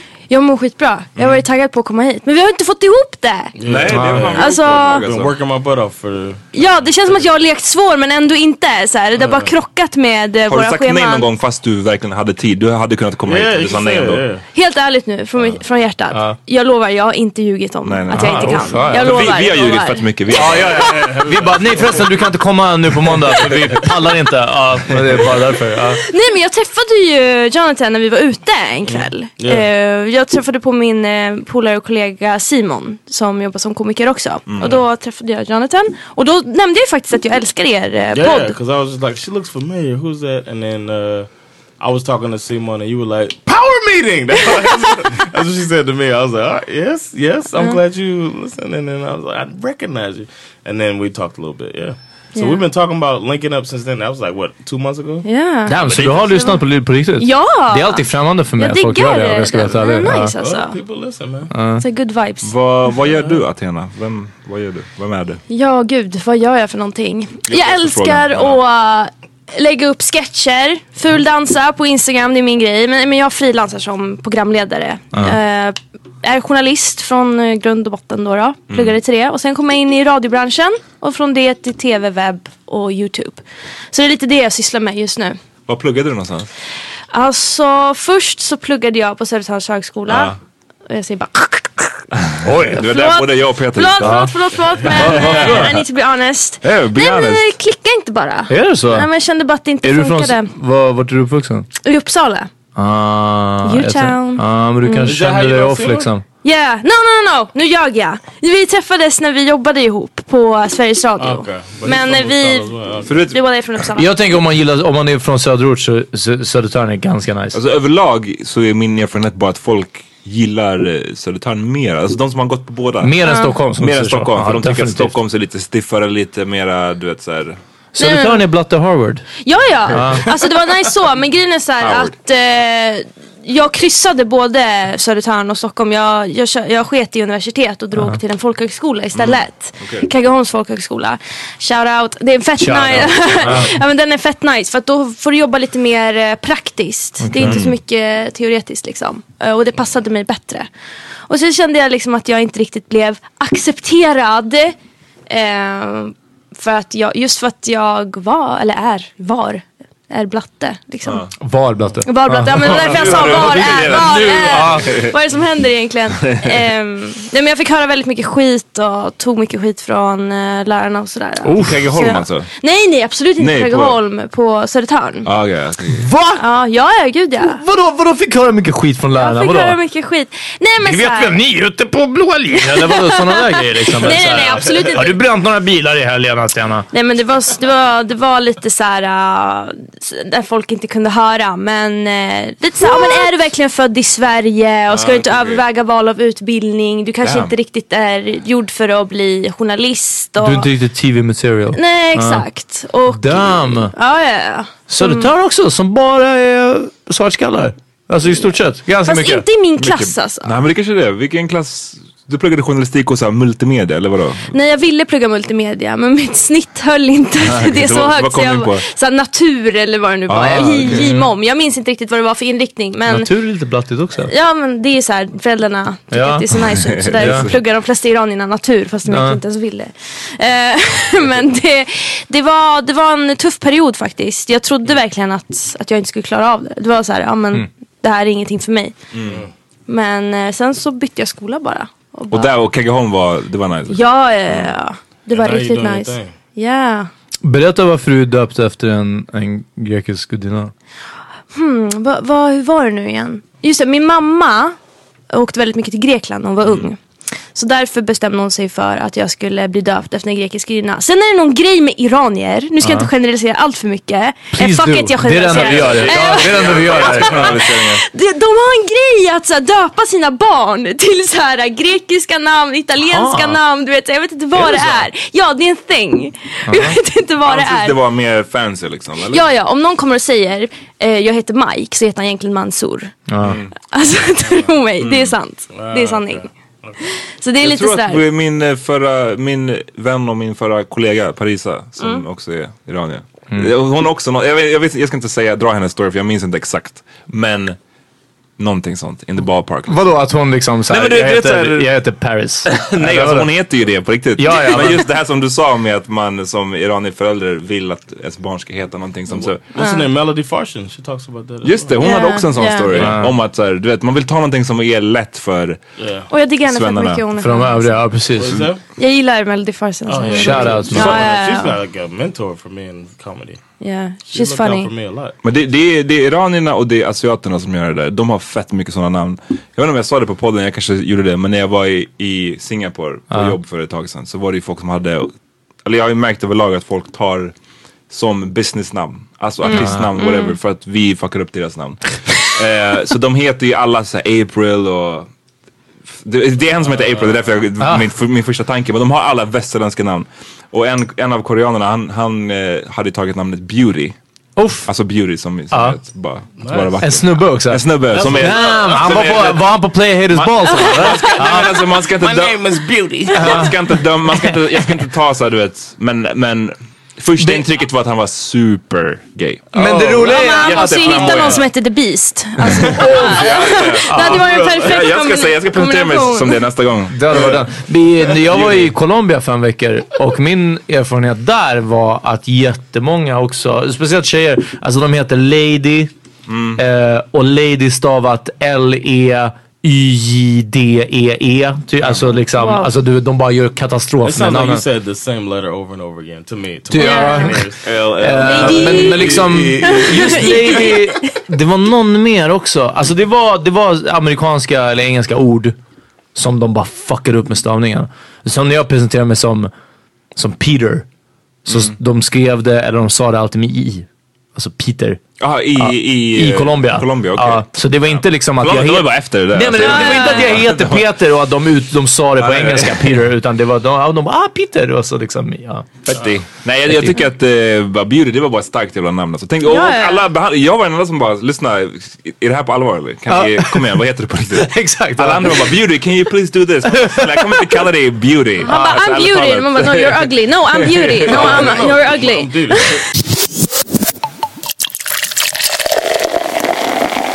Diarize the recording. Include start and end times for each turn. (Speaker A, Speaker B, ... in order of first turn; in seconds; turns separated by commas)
Speaker A: 0.3-5.0, Speaker B: 1.2-1.4, Speaker C: 3.5-6.4, Speaker B: 3.6-5.3, Speaker A: 6.5-11.3, Speaker C: 9.2-9.5, Speaker B: 10.5-14.2, Speaker C: 13.2-14.4, Speaker A: 14.5-20.4, Speaker D: 16.1-16.4, Speaker B: 17.8-21.0, Speaker D: 18.1-19.1, Speaker D: 20.3-26.0, Speaker C: 20.9-21.9, Speaker A: 26.0-38.5, Speaker C: 28.9-29.7, Speaker B: 34.5-34.8, Speaker C: 38.1-41.3, Speaker C: 41.8-55.3, Speaker A: 52.3-52.6, Speaker A: 55.2-56.6, Speaker D: 55.6-60.3, Speaker C: 55.9-56.2, Speaker A: 57.2-60.8, Speaker C: 60.4-61.5, Speaker D: 61.5-61.8, Speaker A: 61.8-62.5, Speaker B: 62.4-65.4, Speaker A: 65.5-85.4, Speaker B: 67.5-68.6, Speaker B: 78.7-79.0, Speaker B: 85.7-86.5, Speaker A: 87.1-90.3, Speaker B: 90.1-90.4, Speaker A: 90.9-92.0, Speaker B: 92.3-94.3, Speaker D: 92.4-92.8, Speaker A: 92.7-100.5, Speaker D: 94.0-94.3, Speaker D: 94.9-95.7, Speaker B: 95.0-95.7, Speaker B: 96.6-97.5, Speaker D: 98.5-99.1, Speaker D: 99.8-101.7, Speaker A: 101.8-102.5, Speaker D: 102.8-106.2, Speaker A: 103.6-105.1, Speaker C: 105.0-106.1, Speaker A: 106.4-114.2, Speaker C: 111.2-113.2, Speaker B: 113.0-113.3, Speaker D: 114.0-117.6, Speaker B: 117.5-123.2, Speaker D: 123.0-125.1, Speaker A: 123.2-123.6, Speaker B: 123.8-127.6, Speaker D: 127.9-129.3, Speaker A: 128.0-128.4, Speaker A: 129.4-150.7, Speaker D: 129.9-130.3, Speaker B: 131.8-132.1, Speaker B: 139.1-140.1, Speaker D: 142.6-143.7, Speaker B: 143.4-143.7, Speaker D: 147.2-147.6, Speaker B: 147.4-147.8, Speaker A: 151.3-154.7, Speaker A: 155.3-161.3, Speaker D: 161.4-165.1, Speaker A: 162.0-175.3, Speaker B: 162.5-165.1, Speaker B: 166.2-166.5, Speaker D: 171.4-171.8, Speaker B: 171.6-172.5, Speaker B: 173.4-174.0, Speaker B: 175.2-176.1, Speaker D: 175.9-176.4, Speaker A: 176.4-177.6, Speaker D: 177.4-179.8, Speaker A: 179.2-181.4, Speaker D: 180.8-186.8, Speaker A: 182.7-185.2, Speaker C: 184.2-184.9, Speaker A: 186.9-200.7, Speaker C: 194.9-195.5, Speaker B: 197.2-197.5, Speaker D: 200.4-202.4, Speaker A: 201.7-205.3, Speaker D: 203.1-203.9, Speaker D: 204.9-209.4, Speaker A: 209.0-210.5, Speaker B: 209.8-214.5, Speaker A: 214.5-223.3, Speaker B: 217.4-218.8, Speaker B: 220.3-221.1, Speaker D: 220.4-221.3, Speaker D: 223.1-224.3, Speaker A: 224.3-238.9, Speaker D: 226.1-226.4, Speaker B: 226.8-227.5, Speaker D: 227.2-227.5, Speaker D: 229.1-229.4, Speaker B: 239.1-239.4, Speaker A: 239.9-242.6, Speaker B: 242.3-244.7, Speaker A: 243.9-247.1, Speaker C: 245.3-246.3, Speaker D: 247.4-250.7, Speaker A: 251.5-254.8, Speaker A: 255.3-257.0, Speaker B: 256.6-256.9, Speaker A: 257.5-278.0, Speaker D: 262.8-263.1, Speaker D: 264.5-267.6, Speaker B: 265.4-268.0, Speaker D: 273.1-273.6, Speaker B: 274.6-275.0, Speaker D: 276.7-277.0, Speaker B: 277.4-279.4, Speaker A: 279.3-283.1, Speaker D: 283.3-283.6, Speaker B: 283.4-283.7, Speaker A: 283.9-286.5, Speaker B: 285.0-285.3, Speaker C: 285.7-287.1, Speaker A: 287.3-288.3, Speaker B: 287.6-297.8, Speaker A: 292.0-292.2, Speaker B: 298.6-300.1, Speaker D: 299.9-303.5, Speaker B: 300.9-301.9, Speaker B: 302.6-309.6, Speaker D: 304.3-305.1, Speaker C: 309.4-312.0, Speaker A: 309.7-310.1, Speaker B: 311.6-315.8, Speaker A: 312.0-313.1, Speaker D: 312.9-313.3, Speaker C: 316.0-316.3, Speaker A: 316.3-318.1, Speaker B: 316.6-317.3, Speaker D: 317.4-318.6, Speaker C: 318.4-318.8, Speaker A: 319.0-321.8, Speaker C: 320.1-323.6, Speaker D: 320.4-321.2, Speaker A: 323.8-324.9, Speaker C: 324.2-325.3, Speaker B: 325.4-335.3, Speaker B: 335.8-337.5, Speaker B: 338.1-345.3, Speaker A: 339.6-340.6, Speaker D: 339.7-340.1, Speaker B: 346.1-354.2, Speaker C: 346.9-347.4, Speaker D: 347.8-348.1, Speaker D: 354.6-354.9, Speaker B: 354.8-359.6, Speaker D: 355.7-356.0, Speaker C: 356.6-357.0, Speaker D: 357.0-361.8, Speaker C: 358.1-359.6, Speaker C: 360.3-363.7, Speaker B: 360.9-362.6, Speaker B: 363.3-369.7, Speaker D: 363.3-363.8, Speaker D: 367.4-367.6, Speaker D: 369.7-371.6, Speaker C: 369.8-371.6, Speaker A: 370.2-376.6, Speaker B: 370.7-371.4, Speaker D: 372.7-373.4, Speaker B: 373.2-377.5, Speaker D: 374.0-374.4, Speaker C: 374.4-374.9, Speaker D: 377.1-386.1, Speaker B: 378.5-378.9, Speaker B: 386.5-386.8, Speaker D: 386.8-394.8, Speaker B: 392.0-392.4, Speaker A: 392.6-392.9, Speaker C: 394.2-399.4, Speaker D: 396.9-405.8, Speaker A: 397.0-397.6, Speaker B: 397.8-400.5, Speaker A: 398.4-401.3, Speaker D: 406.3-409.7, Speaker D: 410.4-411.1, Speaker D: 411.6-415.2, Speaker B: 411.7-411.9, Speaker B: 415.4-421.1, Speaker D: 415.8-426.1, Speaker A: 419.8-420.5, Speaker B: 422.4-423.2, Speaker B: 426.1-441.7, Speaker D: 426.9-427.2, Speaker A: 429.6-430.2, Speaker D: 433.3-434.0, Speaker D: 434.5-435.7, Speaker D: 436.9-437.8, Speaker A: 438.6-443.0, Speaker C: 441.3-443.0